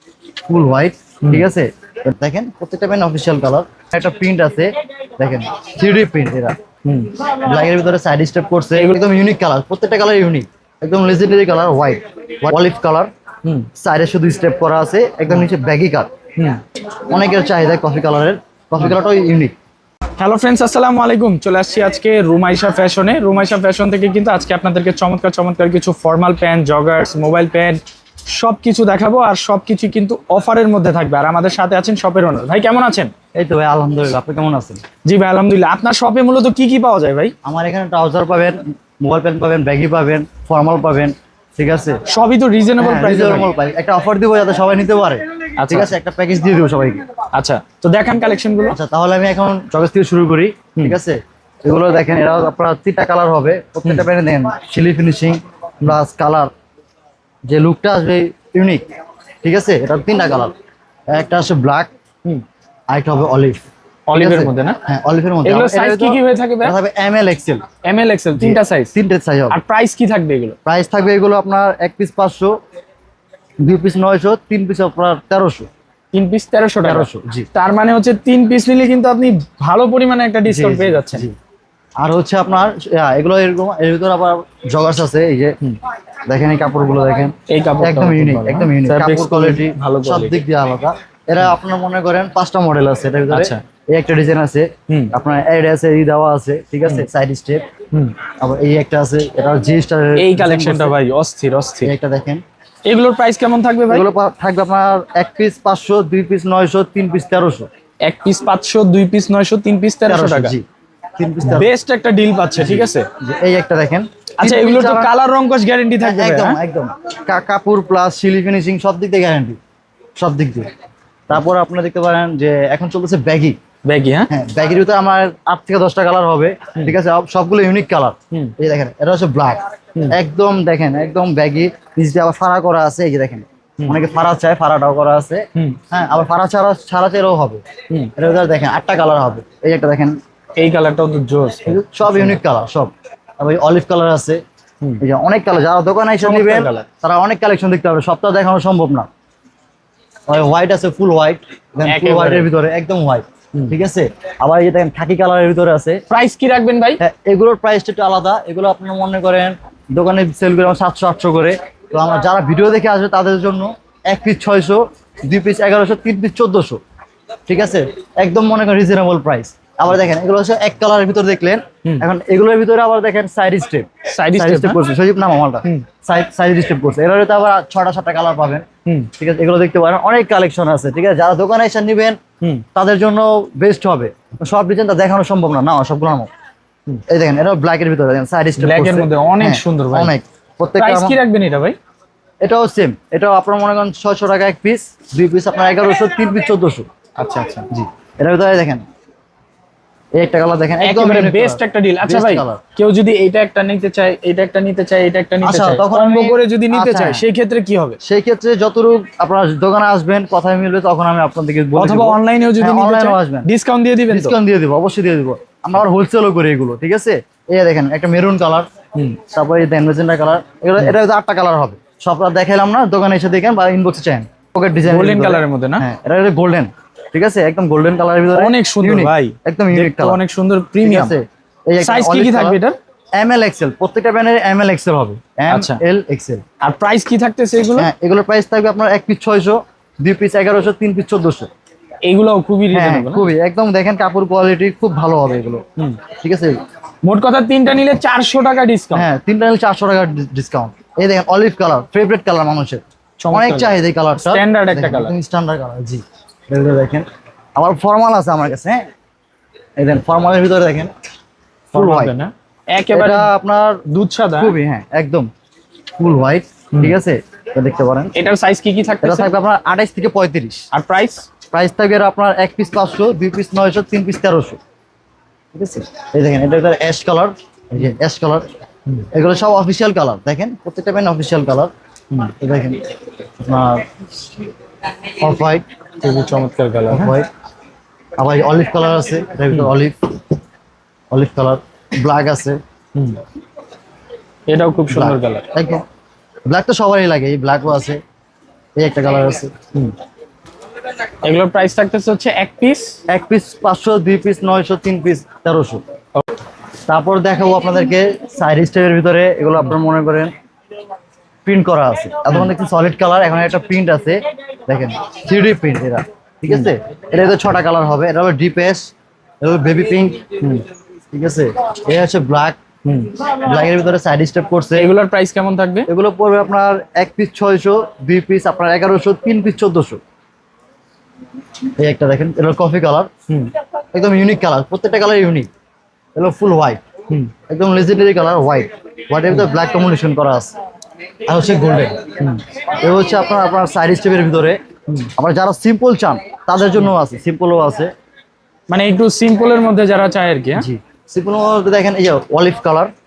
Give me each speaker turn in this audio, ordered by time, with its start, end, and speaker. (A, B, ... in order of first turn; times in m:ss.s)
0:00.5-0:06.6 A
0:06.8-0:07.3 B
0:07.3-0:13.1 A
0:08.8-0:09.0 B
0:13.8-0:16.1 A
0:16.4-0:16.6 B
0:17.1-0:19.5 A
0:20.2-0:33.1 B
0:33.4-0:34.8 A
0:35.0-0:37.3 B
0:37.4-0:42.0 A
0:42.1-0:43.5 B
0:42.8-0:47.0 A
0:45.6-0:45.9 B
0:47.3-0:48.8 B
0:48.7-0:56.5 A
0:57.5-0:58.8 A
0:59.4-1:00.5 A
1:01.1-1:01.9 A
1:02.9-1:03.6 A
1:04.1-1:04.8 B
1:04.2-1:07.7 A
1:05.4-1:06.8 B
1:07.8-1:08.9 B
1:08.4-1:09.6 A
1:09.5-1:10.6 B
1:10.6-1:12.5 A
1:13.6-1:15.7 A
1:16.1-1:21.3 B
1:16.8-1:17.5 A
1:20.5-1:21.4 A
1:22.0-1:25.6 A
1:26.3-1:37.7 A
1:27.5-1:30.4 B
1:33.3-1:33.6 B
1:34.9-1:35.1 B
1:38.4-1:40.9 A
1:40.2-1:41.9 B
1:41.8-1:42.4 A
1:42.8-1:44.1 B
1:43.9-1:47.7 A
1:48.0-1:50.6 B
1:50.1-1:50.7 A
1:51.2-1:51.7 A
1:51.4-1:53.1 B
1:52.6-1:55.1 A
1:54.4-1:56.6 B
1:56.0-1:59.6 A
2:00.2-2:00.7 A
2:01.3-2:03.6 A
2:03.8-2:04.3 B
2:04.3-2:17.6 A
2:18.2-2:20.2 A
2:20.6-2:22.4 B
2:21.7-2:24.4 A
2:25.0-2:29.1 A
2:26.2-2:26.9 B
2:30.3-2:36.0 A
2:31.8-2:32.5 B
2:36.1-2:37.0 B
2:37.0-2:46.8 A
2:47.5-2:58.7 A
2:54.1-2:54.8 B
2:58.9-2:59.1 B
2:59.2-3:02.2 A
3:02.8-3:06.3 A
3:07.1-3:11.2 A
3:08.6-3:10.1 B
3:10.8-3:11.8 B
3:12.4-3:16.9 A
3:17.2-3:17.7 B
3:17.7-3:18.8 A
3:20.2-3:22.6 A
3:20.8-3:28.0 B
3:25.4-3:27.2 A
3:28.0-3:33.5 A
3:31.8-3:34.4 B
3:34.1-3:50.2 A
3:44.8-3:45.9 B
3:48.4-3:51.2 B
3:50.8-3:52.6 A
3:51.8-3:52.8 B
3:53.2-3:56.4 A
3:55.5-3:55.8 B
3:56.6-3:57.9 B
3:57.8-4:01.5 A
4:02.0-4:03.3 B
4:02.7-4:06.6 A
4:07.0-4:09.1 B
4:08.9-4:18.8 A
4:13.2-4:15.2 B
4:19.8-4:20.9 A
4:21.7-4:23.3 B
4:21.7-4:22.2 A
4:22.9-4:23.8 A
4:23.9-4:24.6 B
4:24.4-4:25.3 A
4:26.0-4:28.2 A
4:28.1-4:29.4 B
4:29.0-4:30.7 A
4:30.7-4:31.3 B
4:31.5-4:34.6 A
4:35.5-4:38.5 A
4:39.1-4:41.7 A
4:42.3-4:42.8 A
4:43.4-4:43.9 A
4:45.2-4:45.7 A
4:46.0-4:47.2 B
4:46.9-4:47.3 A
4:48.2-4:50.2 A
4:51.1-4:52.6 A
4:53.0-4:53.2 B
4:54.5-4:55.5 B
4:54.9-4:55.8 A
4:56.5-4:58.0 A
4:58.8-4:59.5 A
5:01.2-5:03.0 B
5:03.1-5:05.8 A
5:06.8-5:10.3 A
5:11.4-5:20.2 A
5:20.4-5:20.6 B
5:21.1-5:22.6 A
5:22.8-5:23.2 B
5:23.2-5:24.9 A
5:24.8-5:25.9 B
5:25.9-5:30.0 A
5:31.8-5:33.1 A
5:33.9-5:35.5 A
5:36.2-5:36.8 A
5:37.5-5:40.5 A
5:41.3-5:42.0 A
5:42.8-5:44.6 A
5:45.2-5:47.9 A
5:48.7-5:50.7 B
5:50.6-5:52.9 A